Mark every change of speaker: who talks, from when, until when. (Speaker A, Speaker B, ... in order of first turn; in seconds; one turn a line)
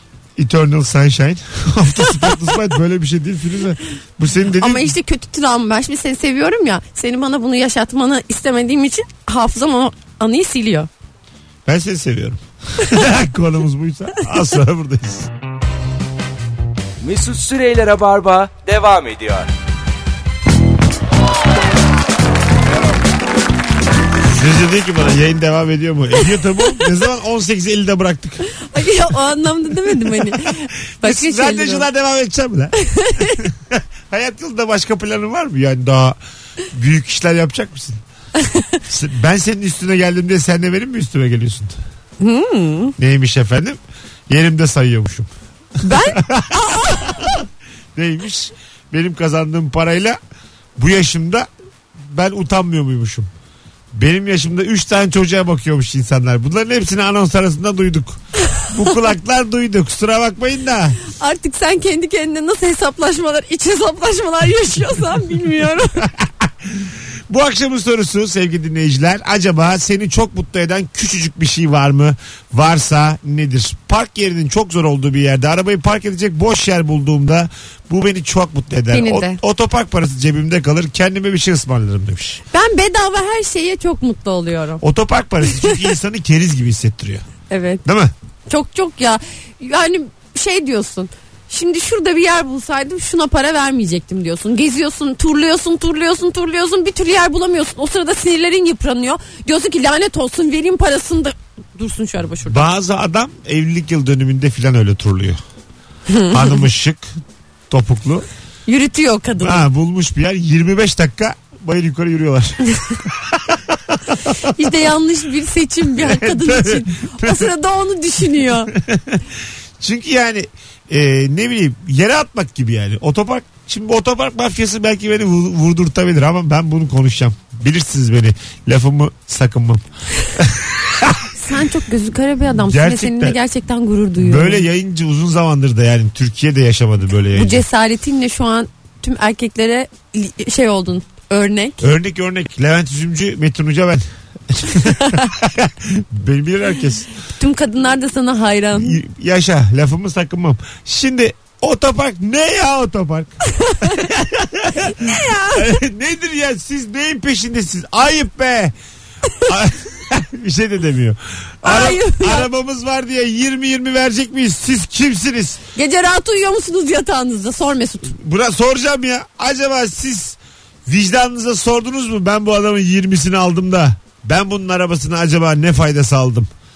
Speaker A: 0.4-4.9
Speaker B: 4.6-10.9
Speaker A: 11.7-15.3
Speaker C: 17.0-19.5
Speaker A: 24.2-28.5
Speaker B: 28.6-31.9
Speaker A: 31.0-36.2
Speaker B: 32.8-33.4
Speaker A: 36.7-38.0
Speaker B: 38.4-38.8
Speaker A: 38.9-41.8
Speaker B: 42.2-42.9
Speaker A: 43.0-45.3
Speaker B: 45.8-47.3
Speaker A: 45.9-47.4
Speaker A: 47.9-50.2
Speaker A: 50.8-51.5
Speaker A: 52.0-53.3
Speaker A: 53.9-61.0
Speaker B: 61.1-66.0
Speaker A: 66.0-82.4
Speaker B: 78.9-79.4
Speaker B: 82.5-84.8
Speaker A: 84.8-87.3
Speaker B: 85.5-85.9
Speaker B: 87.5-87.8
Speaker A: 87.8-88.1
Speaker B: 88.5-102.6
Speaker A: 102.5-105.4
Speaker B: 106.1-106.7
Speaker A: 106.3-107.1
Speaker A: 107.7-108.3
Speaker B: 108.7-109.7
Speaker A: 109.4-114.3
Speaker B: 114.5-118.7
Speaker A: 116.0-117.5
Speaker A: 118.7-119.2
Speaker A: 119.8-131.3
Speaker B: 131.4-134.6
Speaker A: 132.6-133.4
Speaker A: 134.2-137.6
Speaker B: 137.3-141.8
Speaker A: 141.8-147.1
Speaker B: 145.0-145.3
Speaker B: 147.4-149.0
Speaker A: 148.7-158.7
Speaker B: 153.6-154.1
Speaker B: 154.8-155.8
Speaker A: 159.4-165.6
Speaker B: 161.6-162.5
Speaker B: 165.8-168.1
Speaker A: 168.1-176.5